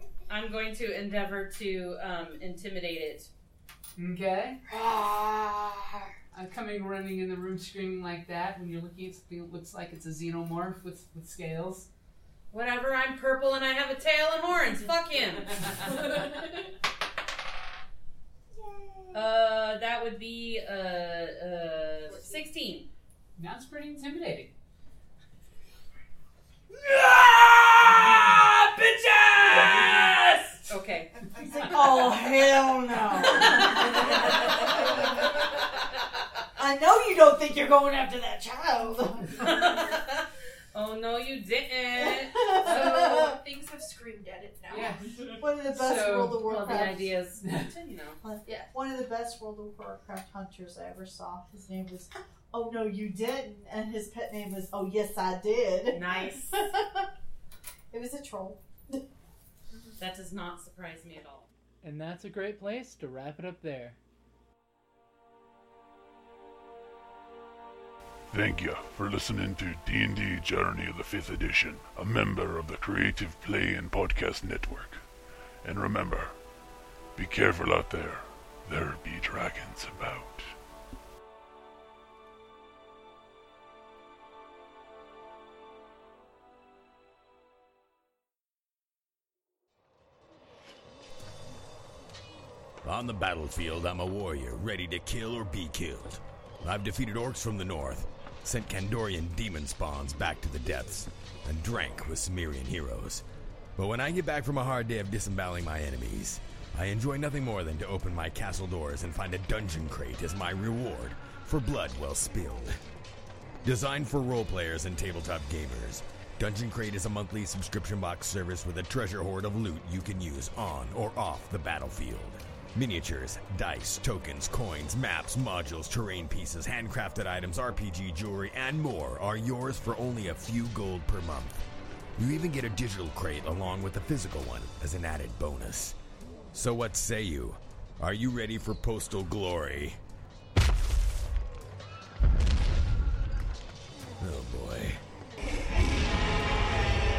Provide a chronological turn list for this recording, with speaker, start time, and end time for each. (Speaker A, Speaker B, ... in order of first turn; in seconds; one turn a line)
Speaker A: 0.3-3.3
Speaker B: 4.0-4.6
Speaker A: 4.7-6.1
Speaker B: 6.3-11.9
Speaker A: 12.5-16.2
Speaker C: 16.1-16.5
Speaker D: 18.5-19.2
Speaker A: 19.1-22.9
Speaker B: 23.4-24.5
Speaker A: 26.8-32.0
Speaker B: 29.6-30.1
Speaker D: 31.3-35.3
Speaker A: 33.1-34.9
Speaker D: 36.5-39.8
Speaker A: 39.3-42.9
Speaker D: 41.9-43.4
Speaker C: 42.6-45.1
Speaker B: 44.7-46.6
Speaker D: 45.3-47.2
Speaker A: 46.4-48.2
Speaker B: 47.4-47.7
Speaker D: 48.2-57.1
Speaker C: 48.4-48.7
Speaker A: 55.9-56.5
Speaker D: 57.9-59.0
Speaker C: 59.7-60.0
Speaker A: 60.0-61.5
Speaker E: 61.8-63.9
Speaker F: 68.3-75.0
Speaker F: 75.6-76.3
Speaker F: 77.2-80.5
Speaker G: 92.8-103.2
Speaker G: 103.8-112.8
Speaker G: 113.6-131.6
Speaker G: 132.2-136.0
Speaker G: 136.5-140.0
Speaker G: 144.2-145.0